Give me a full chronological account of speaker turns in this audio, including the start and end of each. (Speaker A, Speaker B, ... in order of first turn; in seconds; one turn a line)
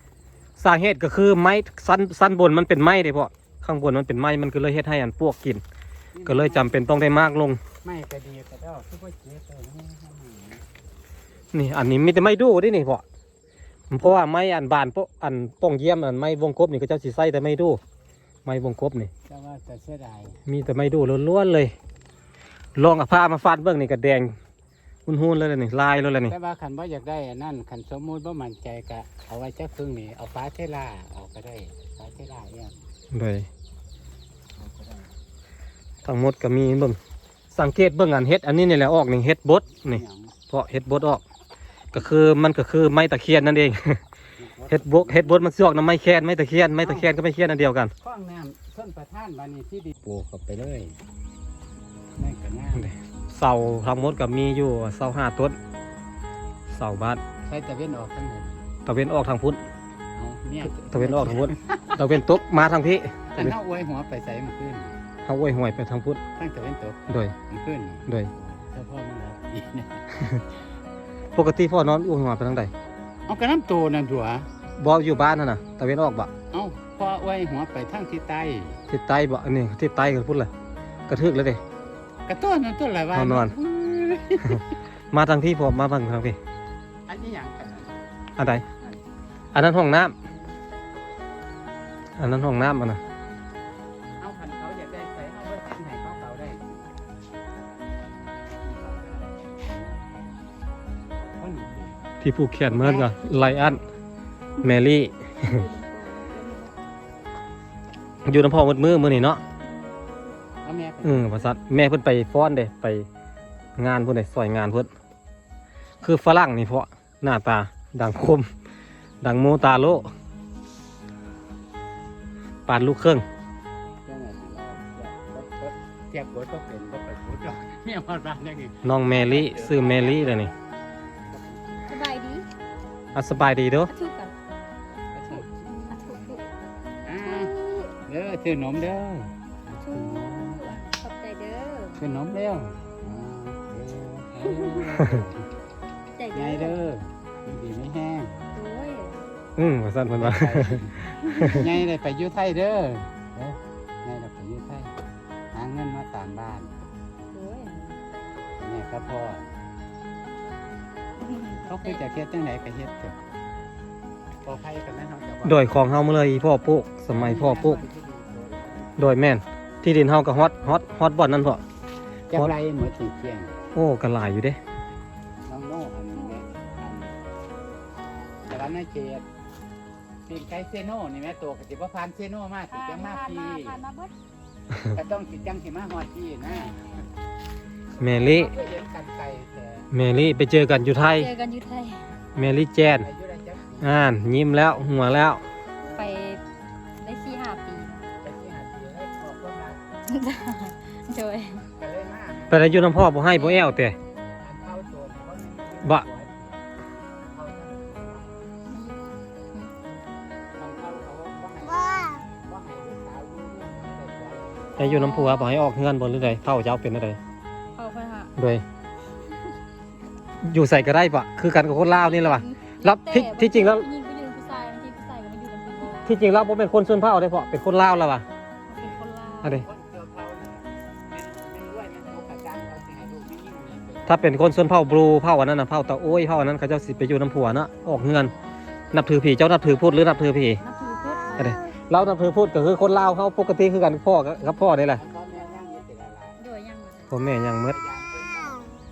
Speaker A: 0.6-5.6
Speaker B: 6.2-7.1
Speaker A: 6.2-7.6
Speaker B: 7.8-10.6
Speaker A: 11.5-13.0
Speaker A: 13.9-17.8
Speaker A: 18.4-19.1
Speaker B: 19.3-20.4
Speaker A: 20.5-21.7
Speaker A: 22.8-24.3
Speaker A: 25.1-26.4
Speaker B: 26.3-32.8
Speaker A: 33.1-33.5
Speaker B: 34.6-35.0
Speaker A: 36.0-37.0
Speaker A: 37.5-41.2
Speaker B: 39.7-40.4
Speaker A: 41.9-44.0
Speaker B: 44.4-45.5
Speaker A: 44.7-47.9
Speaker B: 46.8-47.1
Speaker B: 48.0-51.0
Speaker B: 52.2-53.0
Speaker A: 52.8-55.6
Speaker A: 56.7-57.2
Speaker B: 57.4-58.7
Speaker A: 58.9-59.6
Speaker B: 60.2-62.2
Speaker A: 60.6-63.6
Speaker B: 63.3-65.0
Speaker A: 65.2-66.2
Speaker B: 66.3-70.0
Speaker A: 67.1-67.4
Speaker A: 71.3-72.7
Speaker B: 73.3-74.5
Speaker A: 74.8-76.3
Speaker B: 76.5-78.8
Speaker A: 78.9-80.5
Speaker A: 81.1-81.6
Speaker B: 82.3-84.6
Speaker A: 83.1-83.5
Speaker A: 85.1-86.4
Speaker B: 87.1-88.0
Speaker A: 88.4-88.7
Speaker A: 89.5-90.1
Speaker A: 92.2-93.0
Speaker B: 94.2-96.9
Speaker B: 98.6-100.0
Speaker B: 101.3-102.0
Speaker A: 102.2-103.8
Speaker B: 102.7-103.2
Speaker A: 104.6-105.7
Speaker C: 105.4-106.8
Speaker A: 108.2-109.4
Speaker C: 109.6-110.0
Speaker B: 110.6-111.5
Speaker A: 111.0-113.1
Speaker A: 113.8-114.9
Speaker A: 116.0-118.5
Speaker A: 119.2-120.1
Speaker A: 122.7-123.2
Speaker B: 124.1-130.5
Speaker A: 128.8-130.5
Speaker B: 131.3-132.0
Speaker C: 131.8-132.5
Speaker A: 133.2-133.9
Speaker C: 133.9-134.3
Speaker B: 135.1-135.5
Speaker C: 135.3-136.4
Speaker B: 137.1-140.7
Speaker C: 137.2-138.0
Speaker C: 139.7-142.1
Speaker B: 142.0-145.4
Speaker C: 144.5-144.8
Speaker A: 144.9-145.2
Speaker C: 146.2-146.8
Speaker B: 146.3-148.4
Speaker C: 148.5-149.3
Speaker A: 149.6-151.7
Speaker B: 150.2-154.9
Speaker C: 151.2-151.8
Speaker B: 155.5-156.8
Speaker C: 157.3-157.9
Speaker B: 158.6-159.5
Speaker C: 161.2-162.1
Speaker B: 161.6-163.2
Speaker B: 164.4-165.8
Speaker A: 165.4-167.8
Speaker B: 167.1-169.0
Speaker A: 169.0-171.6
Speaker B: 172.3-173.6
Speaker A: 173.7-174.6
Speaker B: 175.5-177.2
Speaker C: 176.1-176.5
Speaker B: 178.5-179.2
Speaker B: 180.3-183.8
Speaker C: 182.7-184.1
Speaker B: 184.8-186.9
Speaker C: 186.4-187.1
Speaker A: 188.0-188.6
Speaker B: 188.0-189.9
Speaker A: 189.9-191.3
Speaker C: 191.0-192.2
Speaker A: 192.3-193.1
Speaker B: 192.8-194.1
Speaker A: 193.8-195.4
Speaker C: 195.8-196.4
Speaker C: 197.0-198.1
Speaker B: 198.2-199.8
Speaker C: 200.1-201.7
Speaker B: 201.8-202.8
Speaker A: 202.5-204.0
Speaker C: 203.3-203.7
Speaker B: 204.4-206.6
Speaker B: 207.3-208.4
Speaker C: 208.7-209.7
Speaker B: 210.6-214.8
Speaker A: 214.8-217.2
Speaker C: 214.8-215.6
Speaker C: 217.8-218.3
Speaker A: 218.4-218.6
Speaker A: 220.4-223.9
Speaker C: 222.0-226.2
Speaker A: 226.0-228.2
Speaker C: 228.7-229.6
Speaker B: 229.6-234.3
Speaker A: 234.1-238.3
Speaker A: 238.9-240.6
Speaker C: 240.6-241.6
Speaker A: 241.4-245.0
Speaker B: 245.0-246.4
Speaker C: 246.4-247.2
Speaker A: 247.1-247.8
Speaker B: 247.5-248.8